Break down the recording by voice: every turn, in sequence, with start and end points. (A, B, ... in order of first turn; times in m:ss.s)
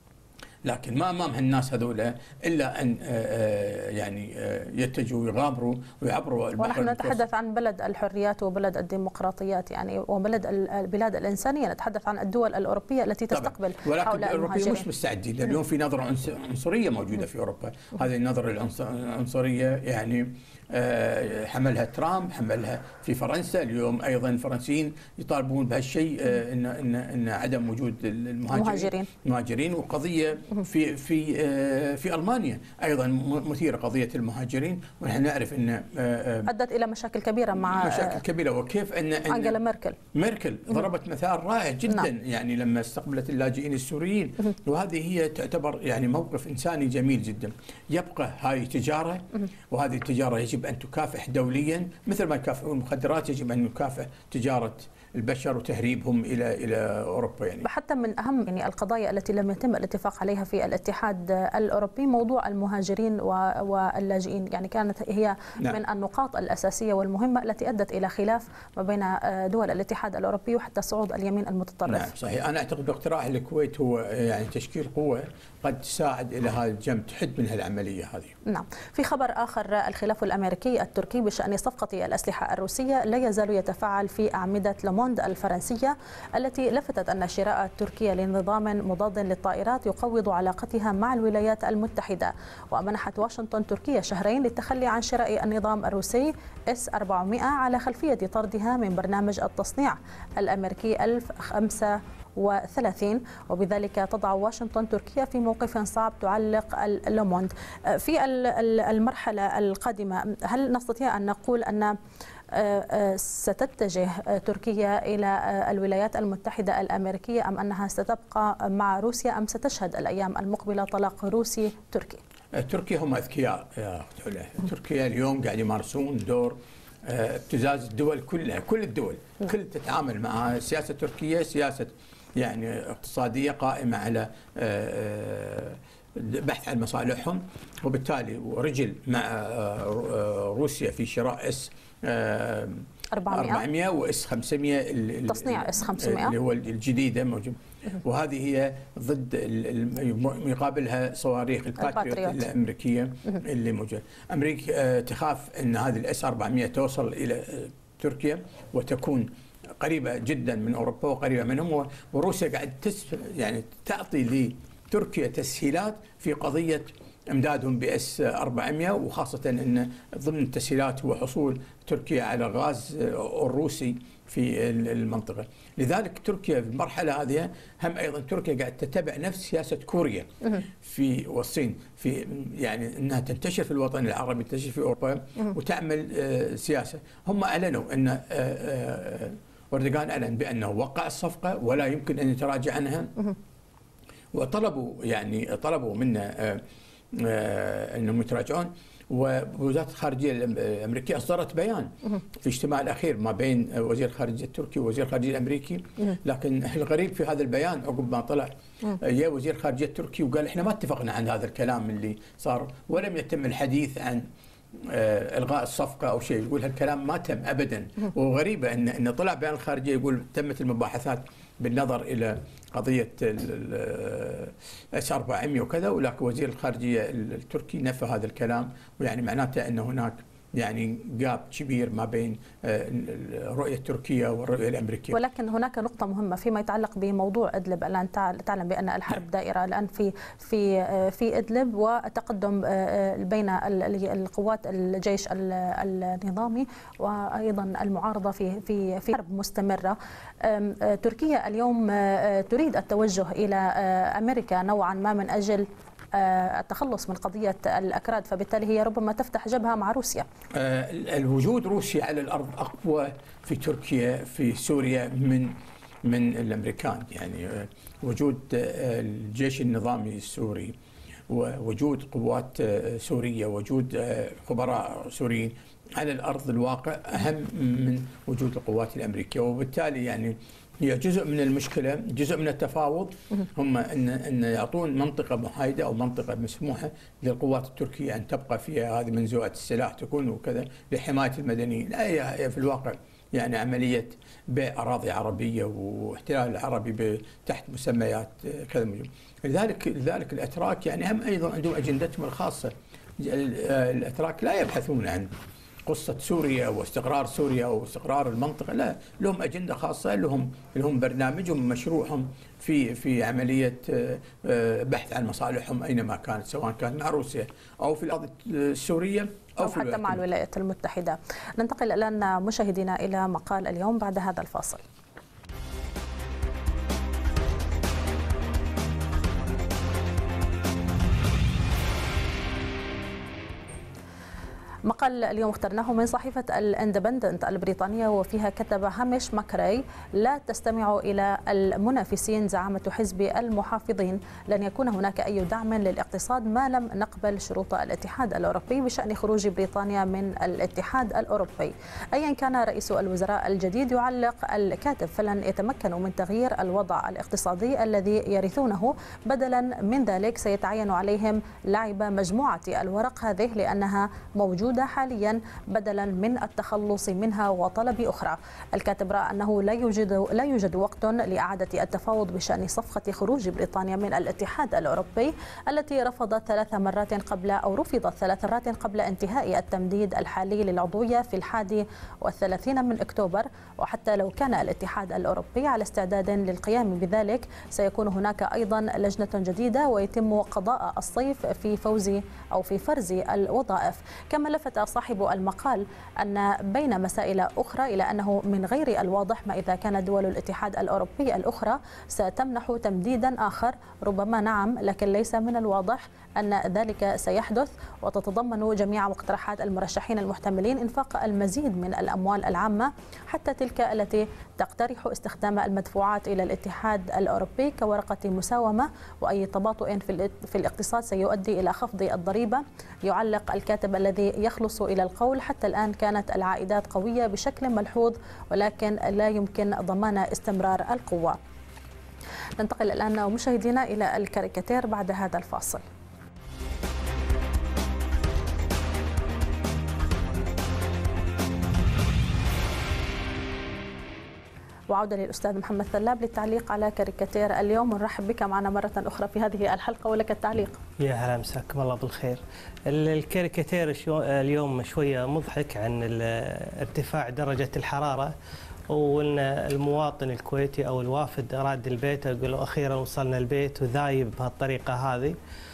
0:00.6-0:07.2 A
0:06.6-0:14.9 B
0:13.3-0:36.5 A
0:28.5-0:29.1 B
0:36.4-0:38.2 B
0:37.5-0:39.6 A
0:39.3-0:40.0 B
0:40.1-0:57.6 A
0:57.6-1:12.1 B
1:11.9-1:18.4 A
1:18.4-1:51.9 B
1:52.5-2:02.2 B
2:02.5-3:13.3 A
2:23.1-2:23.6 B
2:25.3-2:26.3 B
2:31.8-2:32.4 B
3:14.3-3:55.2 A
3:55.1-4:20.2 B
4:20.5-4:30.7 A
4:31.3-5:05.3 A
5:05.8-5:20.2 A
5:19.6-5:24.8 B
5:34.9-7:11.4 B
7:12.6-7:15.8 B
7:24.9-7:30.8 B
7:31.0-7:38.3 C
7:38.9-7:45.4 C